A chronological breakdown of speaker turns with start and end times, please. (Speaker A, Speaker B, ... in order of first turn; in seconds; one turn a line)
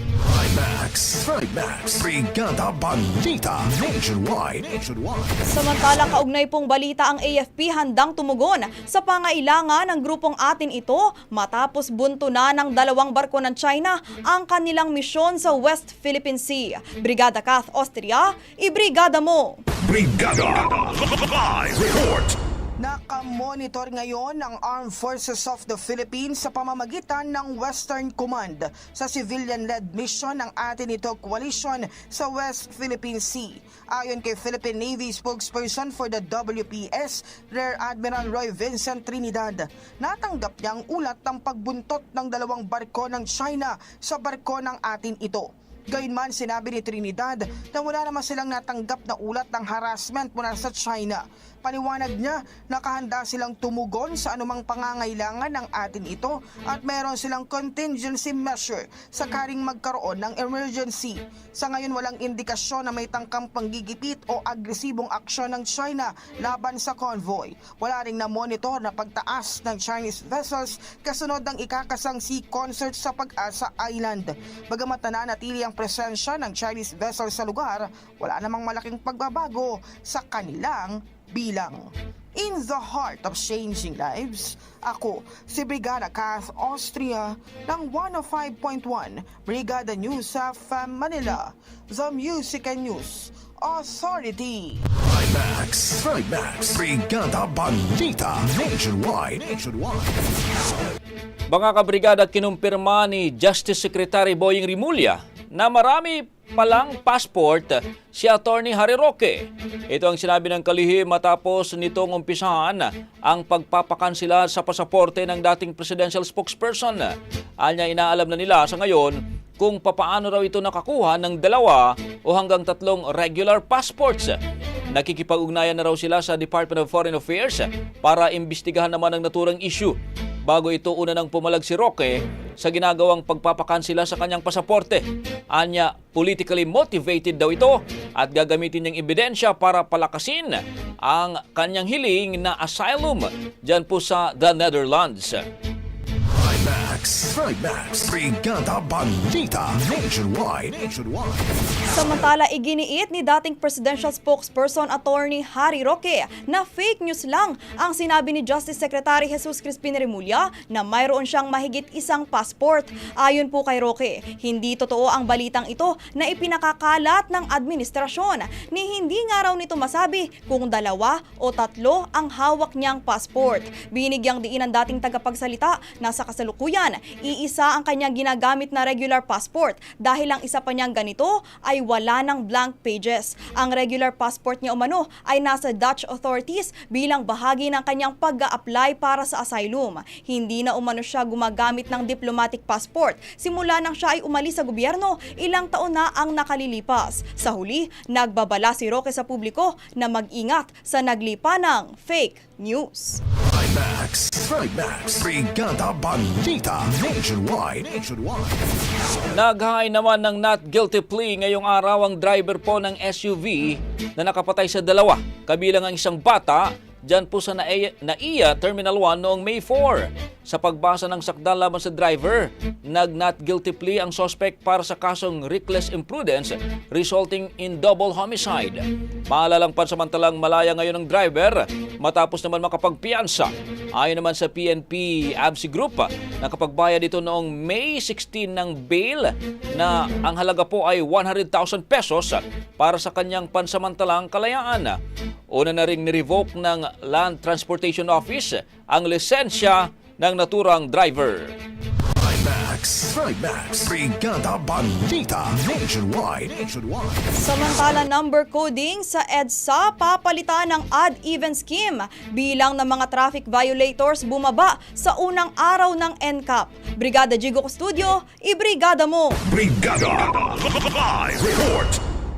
Speaker A: 0.2-5.4
Speaker B: 5.5-19.6
Speaker A: 19.8-22.4
Speaker C: 22.8-94.8
Speaker A: 94.9-100.6
Speaker D: 101.5-124.4
Speaker D: 124.9-145.5
Speaker A: 146.3-151.8
Speaker B: 151.9-203.2
Speaker A: 203.4-209.2
Speaker D: 209.3-245.0
Speaker D: 245.5-251.6
Speaker A: 252.1-257.3
Speaker B: 257.4-269.4
Speaker A: 269.5-272.0